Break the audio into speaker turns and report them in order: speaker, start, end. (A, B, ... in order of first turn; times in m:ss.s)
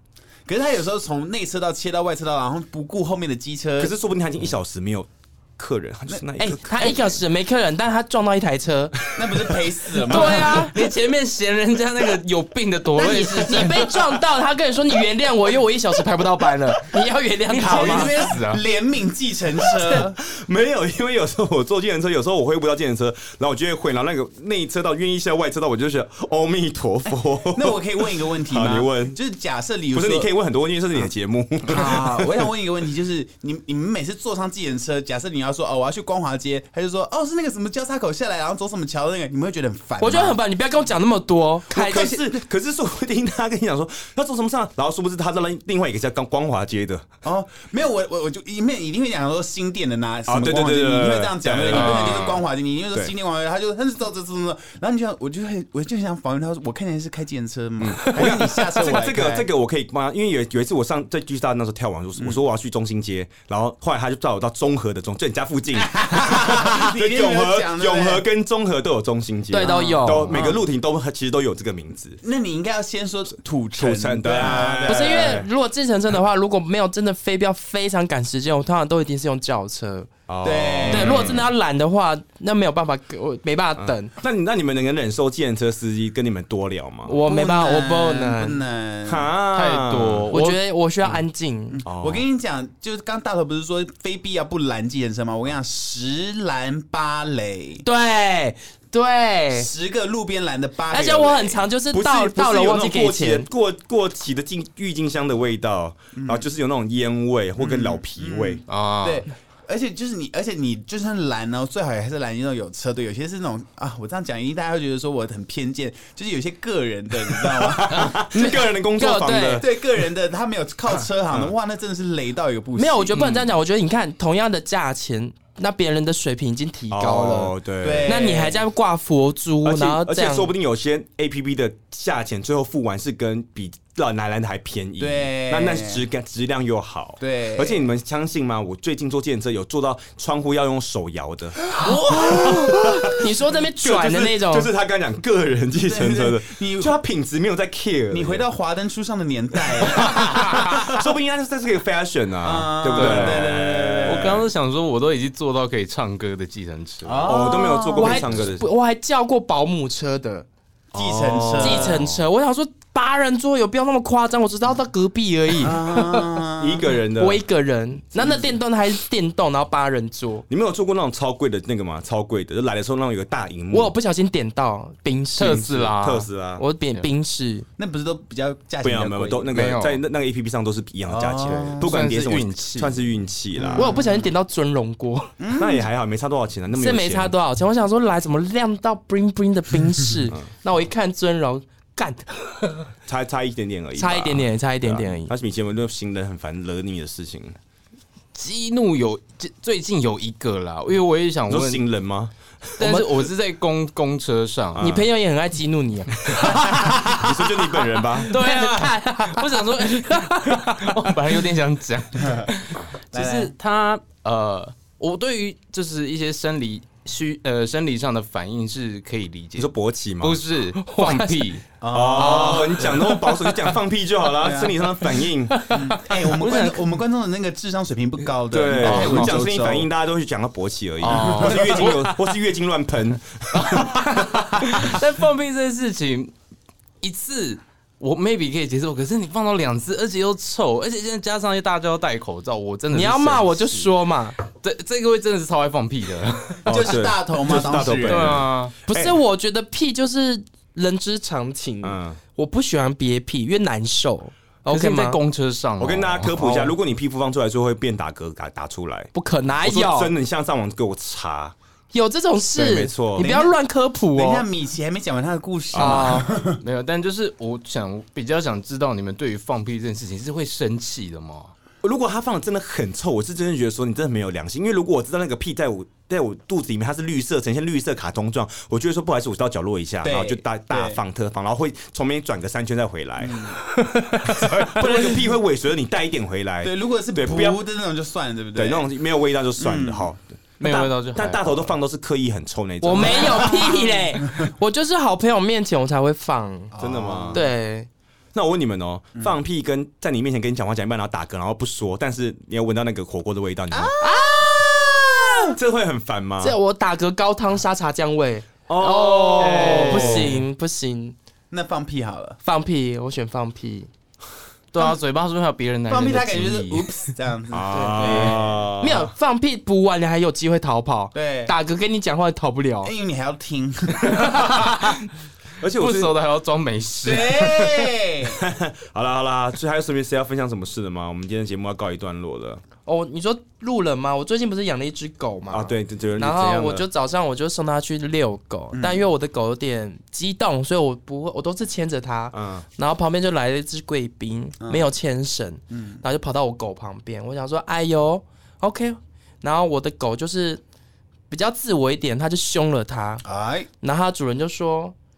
0:00.4-0:03.9 A
0:03.8-0:07.2 B
0:06.4-0:09.2 C
0:09.1-0:10.7 A
0:09.9-0:10.8 C
0:10.0-0:14.2 D
0:13.0-0:18.1 C
0:17.5-0:18.6 D
0:17.6-0:20.2 A
0:20.0-0:29.2 B
0:27.5-0:30.3 A
0:29.9-0:32.3 B
0:31.7-0:40.4 A
0:40.0-0:42.2 C
0:41.7-0:47.0 B
0:47.2-0:59.5 A
0:50.3-0:52.4 B
0:51.7-0:52.4 D
0:57.8-1:12.2 B
1:05.7-1:08.2 A
1:09.5-1:10.4 C
1:09.6-1:10.6 A
1:12.2-1:15.4 A
1:13.8-1:15.5 B
1:14.8-1:20.1 C
1:20.3-1:21.4 B
1:20.4-1:21.5 A
1:20.9-1:24.1 C
1:23.8-1:27.2 B
1:27.0-1:28.6 C
1:27.2-1:29.3 A
1:29.0-1:30.3 B
1:29.5-1:30.6 D
1:30.3-1:31.8 C
1:31.7-1:37.8 A
1:31.8-1:32.2 B
1:37.8-1:39.7 C
1:39.5-1:41.7 A
1:40.9-1:43.5 C
1:41.9-1:48.6 B
1:46.1-1:46.4 A
1:47.6-1:58.3 A
1:48.7-1:49.2 D
1:57.6-1:59.7 B
1:58.3-1:59.6 C
1:59.6-2:03.2 A
2:02.8-2:10.5 C
2:03.1-2:03.4 D
2:06.9-2:08.2 B
2:07.8-2:08.6 A
2:09.6-2:23.2 B
2:15.0-2:16.0 A
2:17.2-2:17.9 A
2:21.7-2:22.7 A
2:21.8-2:24.7 C
2:23.8-2:28.4 B
2:25.8-2:26.9 A
2:28.1-2:30.9 A
2:29.8-2:34.4 B
2:32.4-2:34.4 A
2:32.9-2:33.5 D
2:34.0-2:37.3 D
2:37.0-2:38.5 A
2:37.2-2:38.6 B
2:37.9-2:40.4 C
2:40.9-2:42.2 B
2:40.9-2:42.0 A
2:41.6-2:46.4 C
2:45.5-2:46.8 A
2:46.6-2:47.4 B
2:47.1-2:50.4 C
2:48.2-2:48.5 A
2:50.5-2:53.9 B
2:53.7-2:55.9 C
2:55.3-2:56.3 D
2:55.9-2:56.6 B
2:56.6-2:57.6 C
2:57.8-2:59.7 A
2:58.8-3:03.9 B
2:59.5-3:00.0 D
3:01.1-3:02.0 A
3:01.4-3:03.0 D
3:03.6-3:04.3 A
3:03.7-3:05.3 C
3:05.4-3:05.8 A
3:05.6-3:07.3 B
3:06.7-3:12.9 C
3:13.1-3:17.6 B
3:14.0-3:15.3 C
3:18.3-3:21.8 D
3:21.5-3:22.3 B
3:22.8-3:24.9 D
3:22.8-3:23.1 C
3:24.7-3:25.0 B
3:24.8-3:27.3 C
3:26.9-3:28.3 B
3:28.2-3:31.1 C
3:28.3-3:41.6 D
3:33.1-3:33.5 A
3:39.6-3:40.4 B
3:40.8-3:41.5 C
3:41.8-3:43.0 A
3:41.9-3:45.6 B
3:42.2-3:43.4 C
3:44.4-3:44.8 A
3:45.6-3:46.9 D
3:45.7-3:49.9 A
3:48.5-3:54.0 B
3:48.7-3:49.4 D
3:51.0-3:52.3 D
3:51.1-3:51.9 A
3:53.5-3:56.3 D
3:57.0-4:03.9 D
4:02.9-4:04.4 C
4:04.5-4:06.9 D
4:06.6-4:08.4 A
4:06.6-4:09.2 B
4:08.1-4:08.7 D
4:08.9-4:15.2 C
4:11.8-4:12.2 B
4:14.7-4:16.7 D
4:15.8-4:21.5 B
4:19.1-4:20.1 C
4:21.9-4:24.4 C
4:22.5-4:23.4 B
4:23.2-4:23.5 A
4:24.1-4:26.6 A
4:25.7-4:26.2 B
4:25.8-4:26.3 C
4:26.5-4:31.5 D
4:31.8-4:43.5 B
4:40.0-4:41.0 A
4:43.2-4:43.6 A
4:43.8-4:44.6 C
4:44.4-4:47.6 B
4:46.6-4:48.9 A
4:48.6-4:53.7 B
4:49.6-4:50.1 A
4:50.6-4:51.7 D
4:52.8-4:56.7 C
4:53.0-4:54.4 A
4:56.7-4:57.4 A
4:56.8-4:57.4 B
4:57.3-4:57.9 C
4:58.3-5:03.9 B
5:03.7-5:05.6 A
5:04.0-5:05.0 C
5:05.5-5:06.6 B
5:06.4-5:11.2 C
5:08.7-5:10.4 B
5:09.4-5:10.4 D
5:11.5-5:12.4 A
5:12.4-5:13.9 C
5:14.7-5:16.9 D
5:15.9-5:18.6 A
5:17.5-5:19.1 B
5:17.7-5:22.9 C
5:21.1-5:21.5 A
5:22.8-5:24.5 A
5:25.6-5:26.1 B
5:25.8-5:27.9 D
5:27.0-5:28.4 A
5:28.3-5:32.6 B
5:32.8-5:50.6 C
5:35.5-5:36.8 B
5:38.7-5:39.1 A
5:42.3-5:42.6 B
5:44.6-5:44.9 A
5:45.7-5:46.0 A
5:51.3-5:53.2 C
5:53.2-5:53.7 A
5:53.8-5:54.9 C